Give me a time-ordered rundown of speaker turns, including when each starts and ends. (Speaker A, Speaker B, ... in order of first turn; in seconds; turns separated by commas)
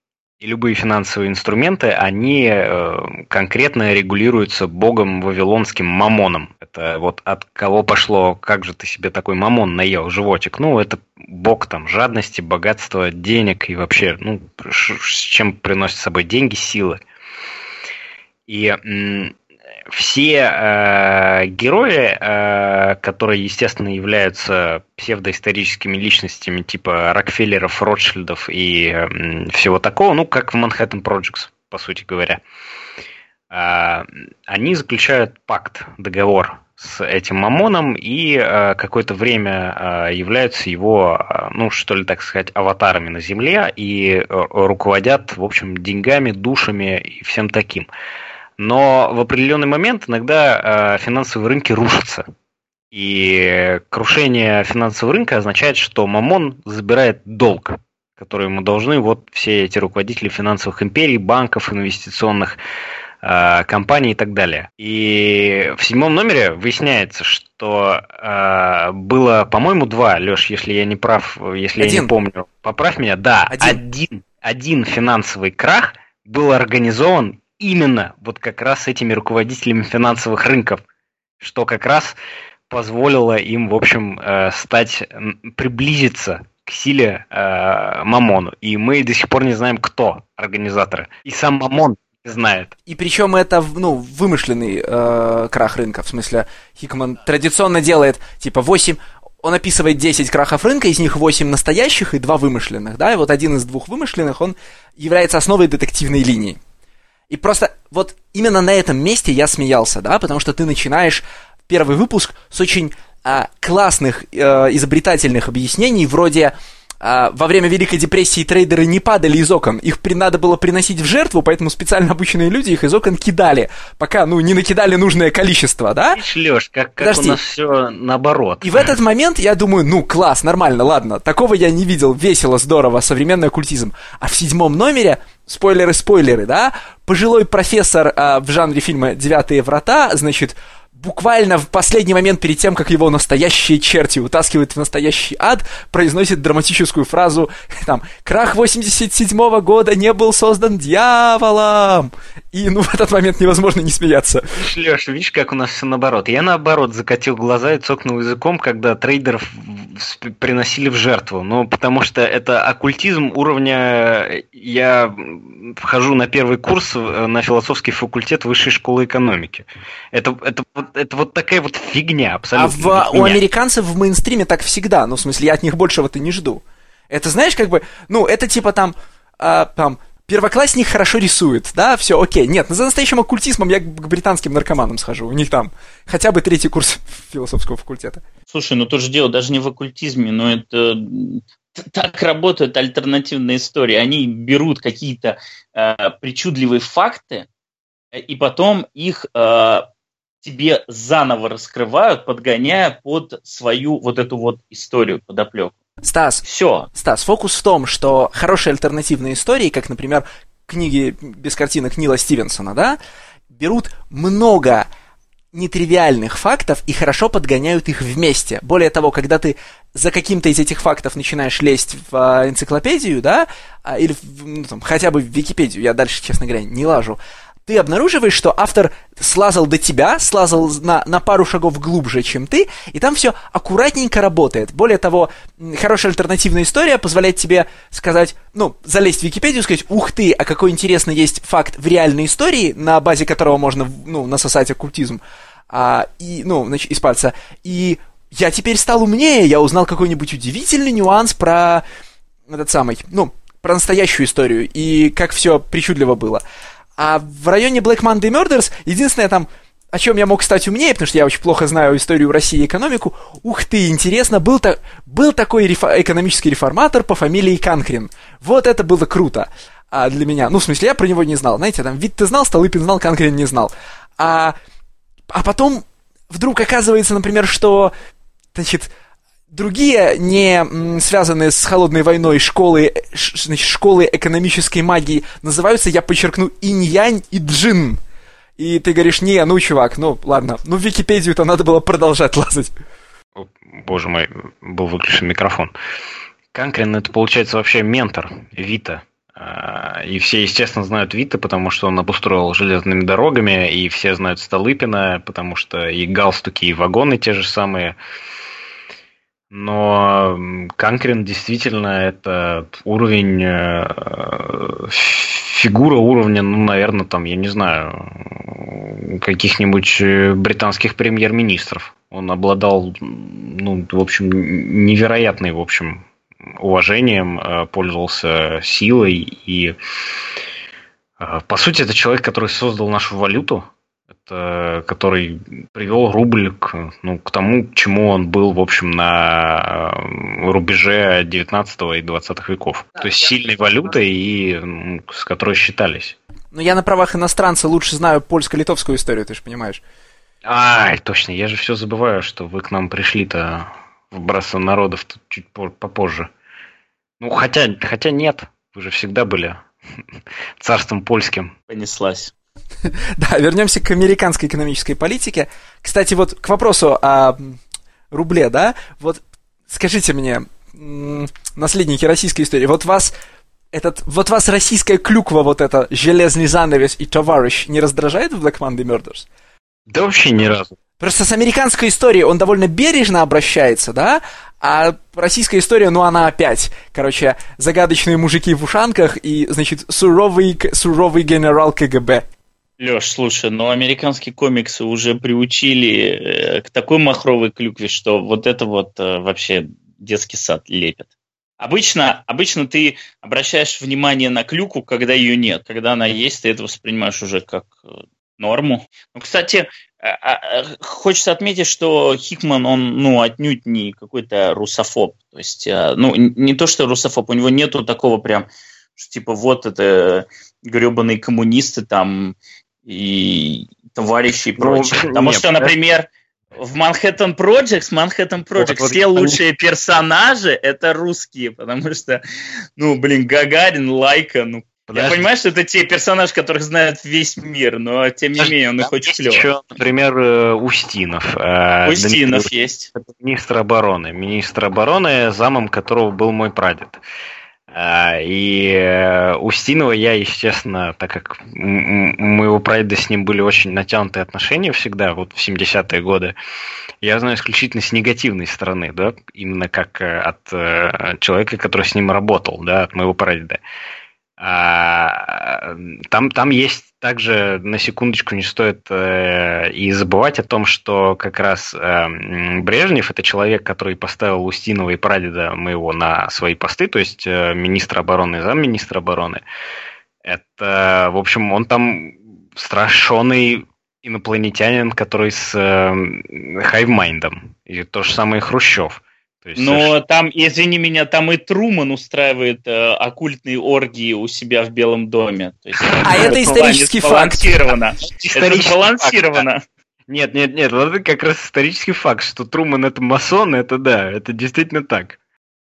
Speaker A: 0.4-17.0, Speaker A: 18.5-19.4, Speaker A: 19.9-32.4, Speaker A: 33.5-47.9, Speaker A: 48.6-52.2, Speaker A: 52.9-62.6, Speaker A: 63.2-80.8, Speaker B: 71.8-72.1, Speaker B: 73.5-73.8, Speaker A: 81.4-82.2, Speaker A: 82.7-92.7, Speaker B: 92.9-106.6, Speaker B: 107.3-126.2, Speaker A: 126.1-128.9, Speaker B: 127.0-127.4, Speaker B: 128.6-154.5, Speaker A: 154.5-173.4, Speaker B: 172.5-188.2, Speaker C: 188.5-197.5, Speaker C: 198.1-199.8, Speaker C: 200.4-205.8, Speaker B: 206.0-213.0, Speaker C: 206.4-206.9, Speaker B: 213.5-214.9, Speaker B: 215.5-251.8, Speaker B: 252.5-256.4, Speaker B: 257.0-274.5, Speaker B: 275.3-277.9, Speaker B: 278.5-278.9, Speaker B: 279.5-288.0, Speaker B: 288.6-292.7, Speaker A: 293.4-295.7, Speaker A: 296.5-308.0, Speaker A: 309.5-326.0, Speaker A: 326.6-329.8, Speaker A: 331.2-333.7, Speaker A: 334.2-346.1, Speaker B: 346.5-349.8, Speaker A: 350.4-356.3, Speaker A: 357.2-359.6, Speaker A: 360.6-361.5, Speaker C: 361.7-362.3, Speaker B: 362.9-367.6, Speaker B: 368.1-373.1, Speaker B: 373.7-379.3, Speaker A: 379.9-380.7, Speaker B: 381.0-392.2, Speaker C: 392.8-401.1, Speaker C: 401.6-432.2, Speaker A: 424.6-425.7, Speaker A: 428.6-429.4, Speaker C: 432.8-439.4, Speaker A: 434.9-435.3, Speaker A: 438.4-447.0, Speaker C: 441.8-442.9, Speaker A: 447.7-456.3, Speaker A: 457.0-463.6, Speaker A: 464.4-479.4, Speaker A: 480.2-489.9, Speaker C: 489.6-499.6, Speaker A: 496.0-496.3, Speaker B: 496.0-497.6, Speaker A: 498.0-499.4, Speaker A: 500.1-505.2